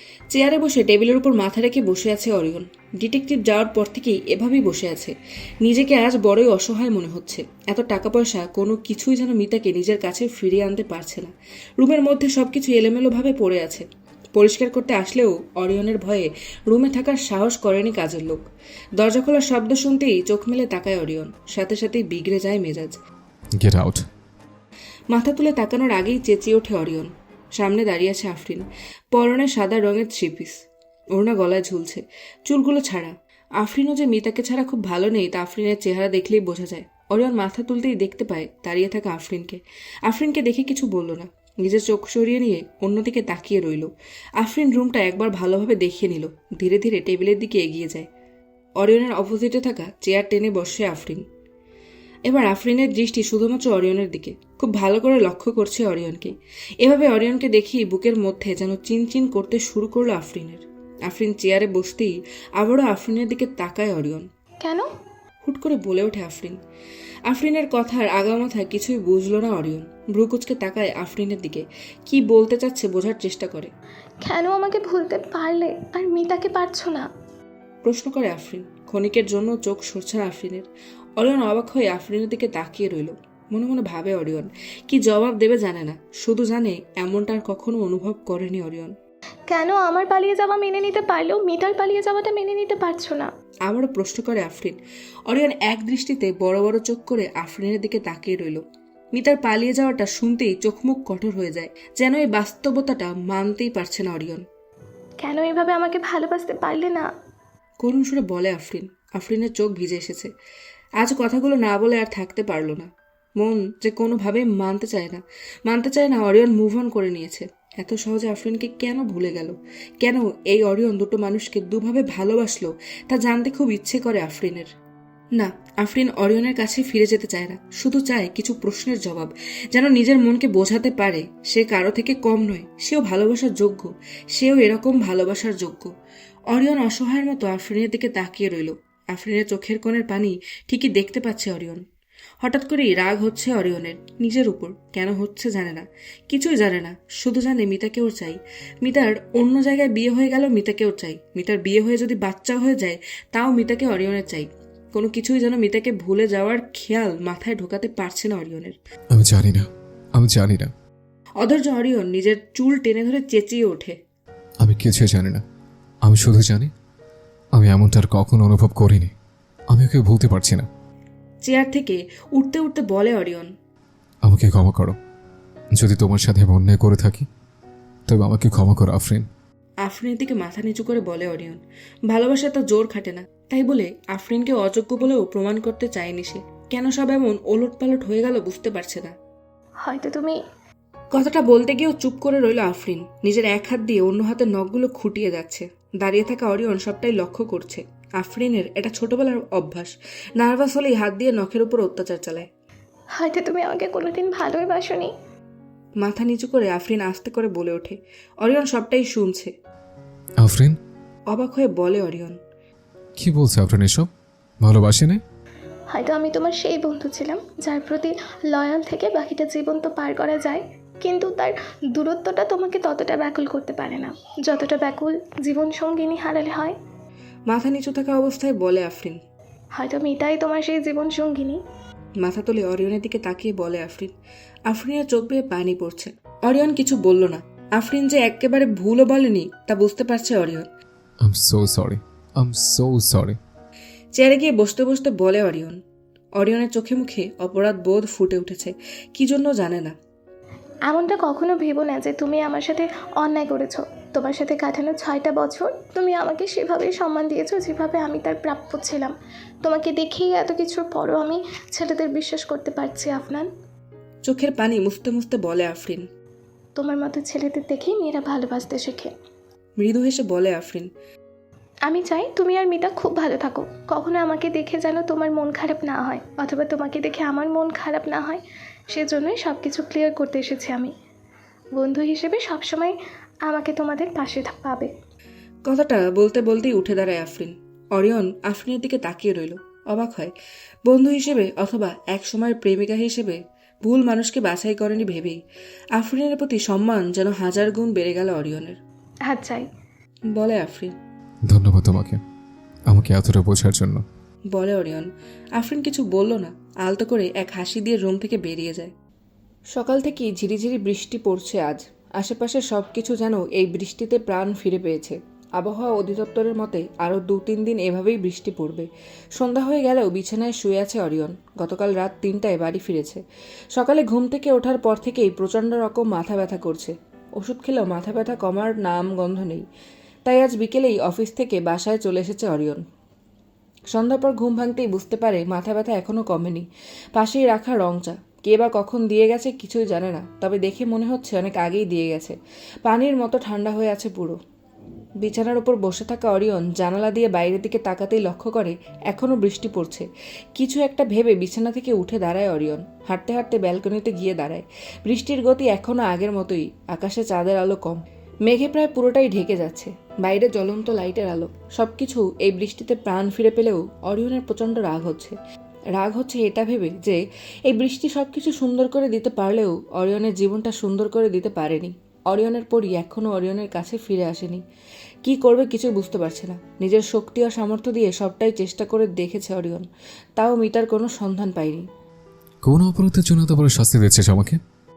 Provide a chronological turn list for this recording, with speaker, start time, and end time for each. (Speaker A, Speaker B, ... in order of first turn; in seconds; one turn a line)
Speaker A: 0.3-13.8
Speaker A: 14.4-18.4
Speaker A: 19.0-23.0
Speaker B: 23.6-24.0
Speaker A: 25.1-30.6
Speaker A: 31.1-48.1
Speaker A: 48.8-51.2
Speaker A: 52.2-64.2
Speaker C: 64.6-64.9
Speaker A: 65.4-66.6
Speaker A: 67.3-73.7
Speaker C: 74.2-77.1
Speaker A: 77.8-88.9
Speaker C: 89.5-93.3
Speaker A: 93.7-98.6
Speaker A: 99.1-104.4
Speaker C: 105.2-107.1
Speaker A: 107.8-110.3
Speaker A: 111.0-124.7
Speaker A: 125.3-135.9
Speaker A: 136.5-141.8
Speaker A: 142.4-158.8
Speaker B: 159.1-160.7
Speaker A: 161.4-163.9
Speaker B: 164.6-165.4
Speaker B: 166.1-166.7
Speaker B: 167.6-169.1
Speaker B: 169.7-170.7
Speaker A: 171.4-173.5
Speaker B: 174.2-174.9
Speaker B: 175.8-177.3
Speaker B: 178.1-179.2
Speaker A: 179.8-189.1
Speaker C: 189.8-190.4
Speaker A: 191.1-202.5
Speaker C: 203.1-205.1
Speaker A: 206.0-209.5
Speaker B: 210.4-210.8
Speaker A: 211.3-212.4
Speaker B: 213.2-214.1
Speaker B: 214.6-215.2
Speaker C: 215.9-226.8
Speaker A: 227.5-229.2
Speaker C: 229.7-231.6
Speaker A: 232.2-234.1
Speaker A: 234.7-240.7
Speaker B: 241.2-243.4
Speaker A: 244.2-245.8
Speaker A: 246.4-249.9
Speaker C: 250.9-263.5
Speaker A: 264.2-266.1
Speaker C: 266.8-269.1
Speaker A: 269.8-270.9
Speaker C: 271.8-280.9
Speaker C: 281.7-284.9
Speaker A: 285.7-290.3
Speaker A: 290.9-295.4
Speaker A: 296.0-298.8
Speaker C: 299.2-299.7
Speaker A: 300.3-300.9
Speaker B: 301.5-302.2
Speaker B: 302.9-304.0
Speaker A: 304.5-308.9
Speaker A: 309.7-323.2
Speaker A: 323.7-329.6
Speaker A: 330.2-332.8
Speaker A: 333.9-344.4
Speaker A: 345.2-365.3
Speaker A: 366.0-374.6
Speaker A: 375.2-379.9
Speaker A: 380.4-381.9
Speaker B: 382.6-384.6